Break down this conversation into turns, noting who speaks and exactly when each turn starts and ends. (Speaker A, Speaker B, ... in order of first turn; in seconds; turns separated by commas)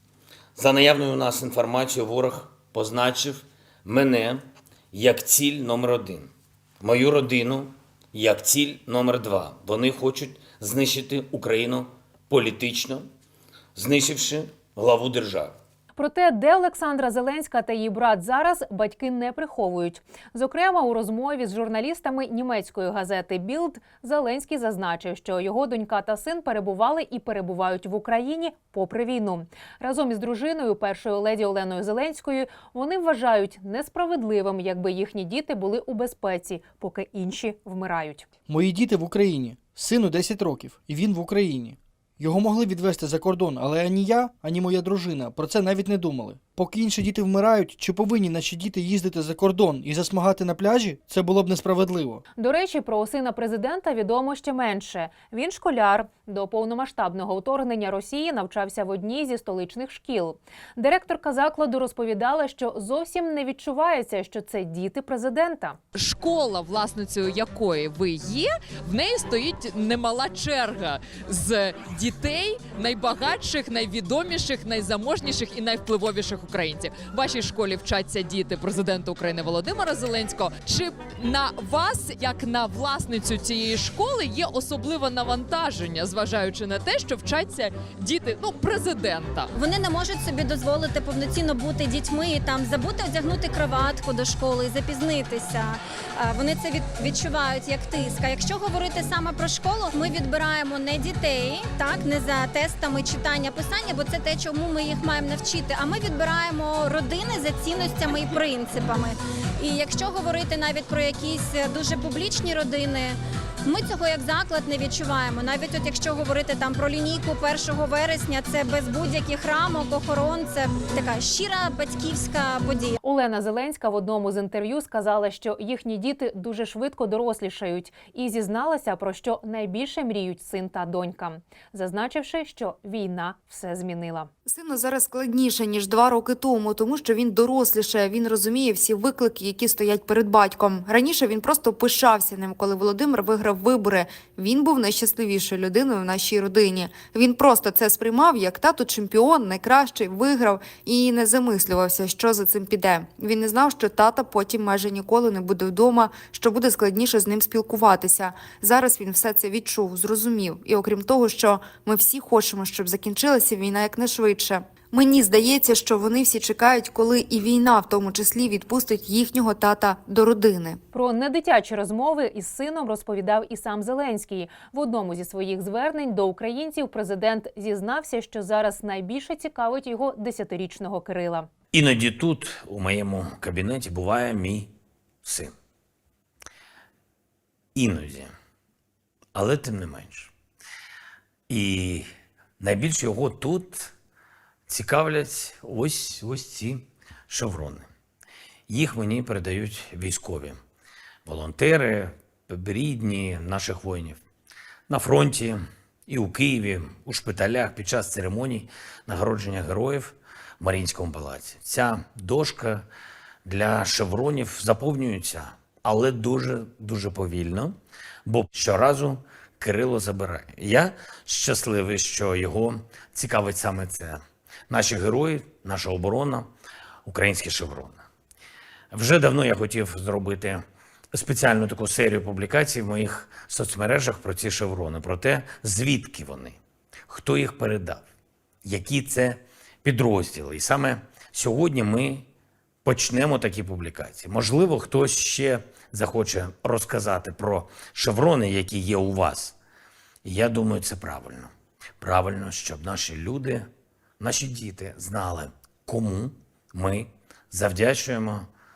Speaker A: 0.5-13.0, Speaker A: 13.7-15.5, Speaker B: 15.9-38.3, Speaker C: 38.5-52.2, Speaker B: 52.4-65.8, Speaker D: 65.9-89.5, Speaker E: 89.5-123.0, Speaker B: 123.0-134.3, Speaker F: 134.4-170.8, Speaker B: 170.9-181.5, Speaker A: 181.7-184.7, Speaker A: 185.2-185.5, Speaker A: 187.7-188.3, Speaker A: 189.3-190.3, Speaker A: 191.5-192.1, Speaker A: 192.6-193.9, Speaker A: 194.7-197.9, Speaker A: 198.7-200.6, Speaker A: 201.2-204.2, Speaker A: 204.9-212.8, Speaker A: 213.4-217.7, Speaker A: 218.2-226.5, Speaker A: 227.1-228.0, Speaker A: 228.9-230.6, Speaker A: 231.1-238.1, Speaker A: 238.6-242.3, Speaker A: 242.8-249.6, Speaker A: 250.2-253.7, Speaker A: 254.2-258.5